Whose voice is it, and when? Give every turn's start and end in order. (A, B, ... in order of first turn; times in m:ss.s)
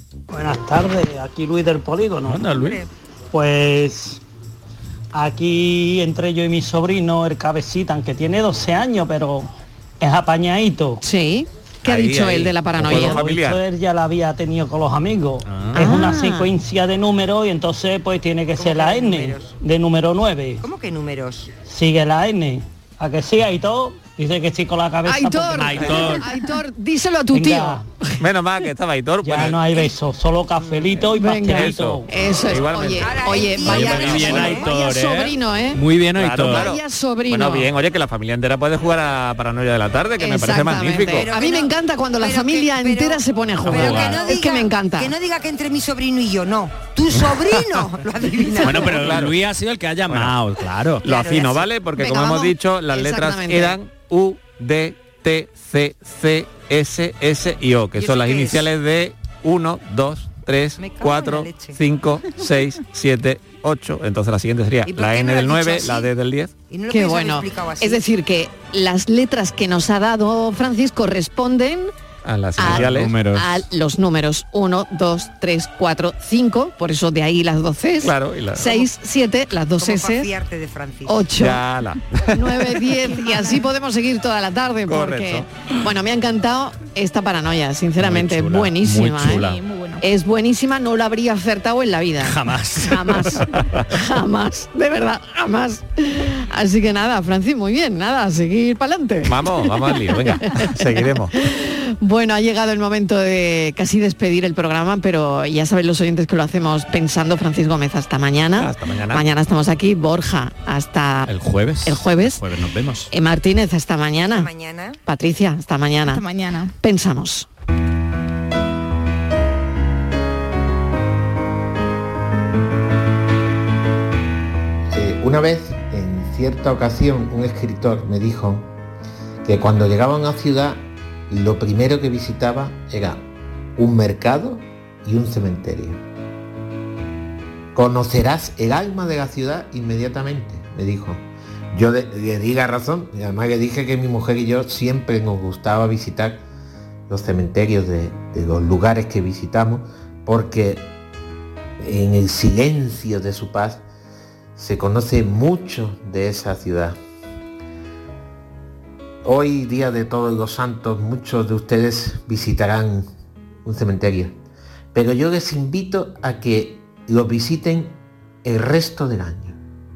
0:00.3-0:02.4 A
0:02.2-0:02.8 B
0:02.6-0:02.9 C
0:03.3-0:04.2 A
0:05.1-0:09.5 A
0:10.0-0:11.0 A
0:11.0-0:13.2 D
0:11.8-0:13.6 E
0:12.9-0:20.6 A
0:15.4-0:15.8 B
0:15.8-0:16.5 D
0:18.5-0:19.6 C
0:20.6-0:21.5 C
0:21.6-0:26.1 A
0:25.0-0:27.8 D
0:25.5-0:26.2 B
0:27.3-0:27.8 A
0:28.2-0:29.8 E
0:29.2-0:32.1 A
0:30.9-0:34.6 E
0:31.1-0:35.8 D
0:33.0-0:34.7 C
0:33.6-0:36.6 B
0:36.2-0:41.3 E
0:36.5-0:37.7 D
0:40.2-0:45.1 D
0:41.1-0:49.0 C
0:43.6-0:44.2 B
0:48.6-0:51.4 B
0:48.8-0:49.4 E
0:50.1-0:50.4 E
0:51.0-1:06.5 E
0:51.1-0:51.7 C
0:52.0-0:53.8 D
0:57.9-0:58.7 C
1:00.8-1:01.8 C
1:04.9-1:06.1 C
1:06.7-1:08.0 C
1:06.9-1:11.9 D
1:12.2-1:13.1 E
1:12.6-1:20.3 D
1:12.6-1:13.6 B
1:18.0-1:18.8 E
1:19.8-1:21.2 C
1:21.0-1:21.6 D
1:21.3-1:22.4 E
1:22.3-1:29.4 D
1:23.0-1:23.7 F
1:24.8-1:25.5 E
1:28.0-1:29.6 B
1:29.3-1:30.0 F
1:30.0-1:51.3 D
1:32.2-1:33.4 B
1:39.2-1:41.3 E
1:48.6-1:49.2 E
1:51.2-1:53.1 B
1:51.8-1:52.4 D
1:53.1-1:54.5 D
1:54.3-1:55.0 C
1:55.0-1:56.2 D
1:56.1-1:56.7 F
1:56.8-1:57.5 D
2:04.9-2:08.7 G
2:09.4-2:13.2 G
2:13.8-2:16.0 G
2:17.7-2:26.4 G
2:27.1-2:30.9 G
2:31.8-2:33.8 G
2:34.5-2:37.0 G
2:39.2-2:43.1 G
2:43.6-2:44.4 G
2:44.9-2:49.6 G